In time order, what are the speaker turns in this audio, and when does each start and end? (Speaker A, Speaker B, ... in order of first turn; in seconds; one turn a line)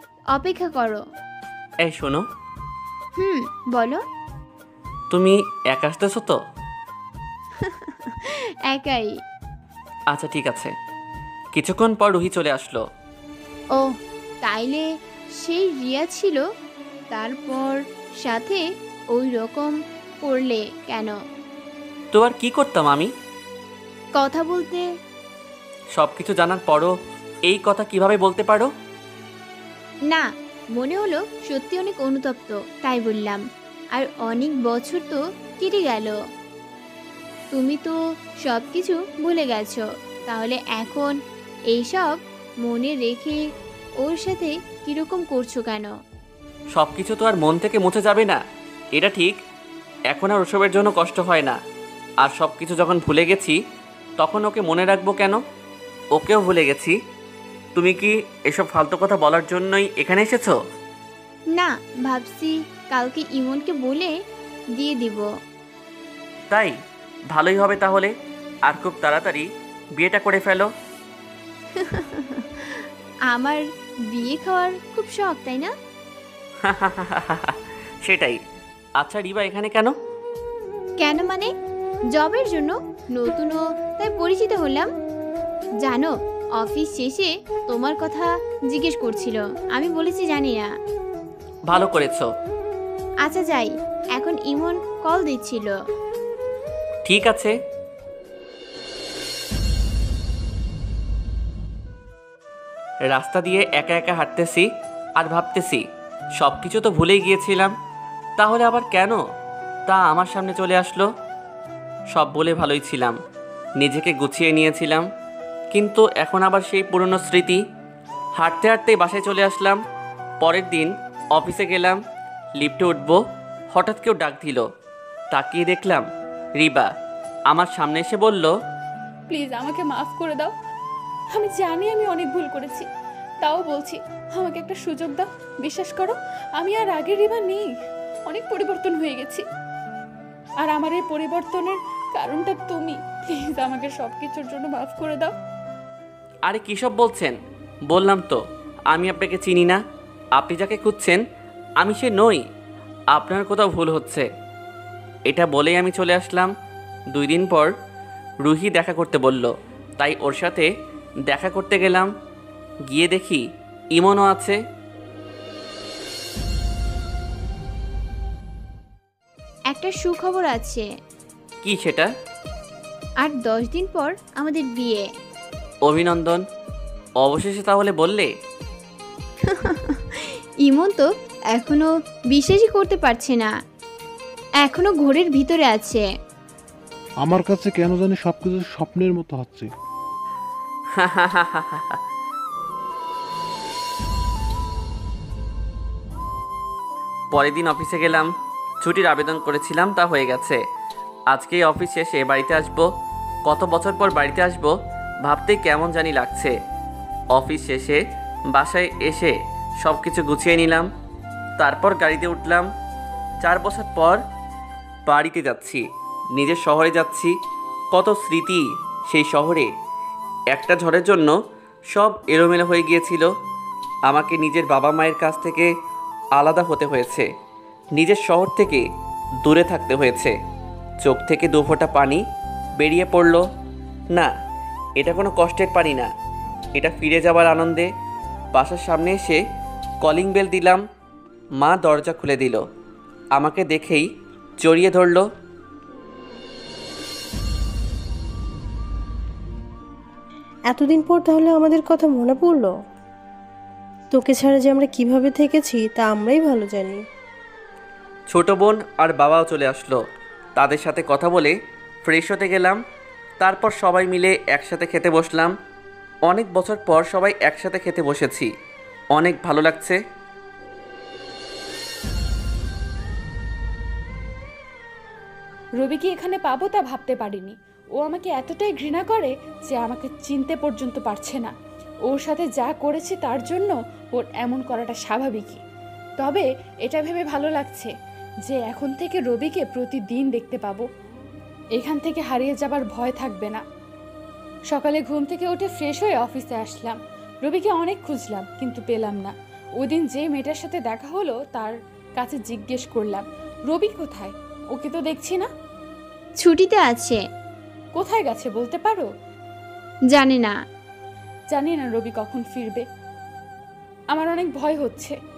Speaker A: 0.3-1.0
Speaker B: 1.8-2.2
Speaker A: 3.2-4.0
Speaker B: 5.1-6.4
Speaker A: 7.6-9.1
Speaker B: 10.1-10.7
Speaker B: 11.5-12.8
Speaker A: 14.4-14.8
Speaker A: 15.4-16.4
Speaker A: 17.1-21.1
Speaker B: 22.1-23.1
Speaker A: 24.1-24.9
Speaker B: 25.9-26.9
Speaker B: 27.5-28.7
Speaker A: 30.1-33.4
Speaker A: 33.9-36.1
Speaker A: 37.5-41.2
Speaker A: 41.7-43.4
Speaker A: 44.0-45.9
Speaker B: 46.7-48.4
Speaker B: 48.9-49.4
Speaker B: 50.1-51.6
Speaker B: 52.2-53.6
Speaker B: 54.2-55.4
Speaker B: 56.1-56.9
Speaker B: 57.8-60.5
Speaker A: 61.5-64.2
Speaker A: 64.8-65.3
Speaker B: 67.3-68.1
Speaker B: 68.7-70.7
Speaker A: 71.7-73.6
Speaker A: 74.1-75.7
Speaker B: 76.6-78.4
Speaker B: 79.0-79.9
Speaker A: 81.0-81.5
Speaker A: 82.1-84.9
Speaker A: 85.8-90.7
Speaker B: 91.7-92.3
Speaker A: 93.2-95.8
Speaker B: 97.0-97.5
Speaker B: 103.1-104.7
Speaker B: 105.2-105.8
Speaker B: 106.4-107.7
Speaker B: 108.4-109.2
Speaker B: 109.9-111.1
Speaker B: 112.1-113.2
Speaker B: 113.8-115.1
Speaker B: 115.7-117.6
Speaker B: 118.4-119.8
Speaker B: 120.4-122.0
Speaker B: 122.6-123.2
Speaker B: 123.7-124.6
Speaker B: 125.3-126.0
Speaker B: 126.6-126.9
Speaker B: 127.5-128.5
Speaker C: 129.3-130.5
Speaker C: 131.3-132.9
Speaker C: 133.4-137.7
Speaker C: 138.3-139.4
Speaker C: 140.6-145.3
Speaker B: 146.5-147.3
Speaker B: 147.9-149.8
Speaker B: 150.4-151.2
Speaker B: 151.8-152.4
Speaker B: 153.1-154.2
Speaker B: 155.3-156.5
Speaker B: 157.1-157.7
Speaker B: 158.4-160.7
Speaker B: 161.3-162.1
Speaker B: 162.9-163.4
Speaker B: 163.9-164.6
Speaker A: 169.7-170.9
Speaker B: 171.6-172.1
Speaker A: 173.2-175.1
Speaker B: 175.8-176.4
Speaker B: 177.2-178.3
Speaker A: 179.4-183.5
Speaker A: 184.6-186.1
Speaker D: 187.2-189.7
Speaker B: 191.0-192.0
Speaker B: 197.3-198.3
Speaker B: 198.8-200.6
Speaker B: 201.3-202.9
Speaker B: 203.5-204.7
Speaker B: 205.2-206.5
Speaker B: 207.3-208.0
Speaker B: 208.5-210.9
Speaker B: 211.6-212.7
Speaker B: 213.4-214.2
Speaker B: 215.1-217.3
Speaker B: 217.9-219.7
Speaker B: 220.5-221.3
Speaker B: 221.9-223.3
Speaker B: 224.1-225.7
Speaker B: 226.4-227.3
Speaker B: 228.0-228.8
Speaker B: 229.4-230.3
Speaker B: 231.0-232.2
Speaker B: 232.8-233.4
Speaker B: 235.0-236.1
Speaker B: 236.8-237.9
Speaker B: 238.5-239.4
Speaker B: 240.0-240.8
Speaker B: 241.6-242.6
Speaker B: 243.3-244.1
Speaker B: 244.6-245.2
Speaker E: 250.7-252.7
Speaker E: 254.1-257.1
Speaker B: 258.3-260.0
Speaker B: 260.6-261.5
Speaker B: 262.1-262.8
Speaker B: 263.4-265.5
Speaker B: 266.3-268.5
Speaker B: 269.1-270.0
Speaker C: 275.8-281.5
Speaker C: 282.1-285.6
Speaker C: 286.2-287.9
Speaker C: 288.4-290.9
Speaker C: 291.8-293.6
Speaker C: 294.7-305.5
Speaker A: 306.4-307.2
Speaker C: 307.9-309.1
Speaker A: 310.1-310.5
Speaker C: 311.5-312.8
Speaker C: 314.1-315.1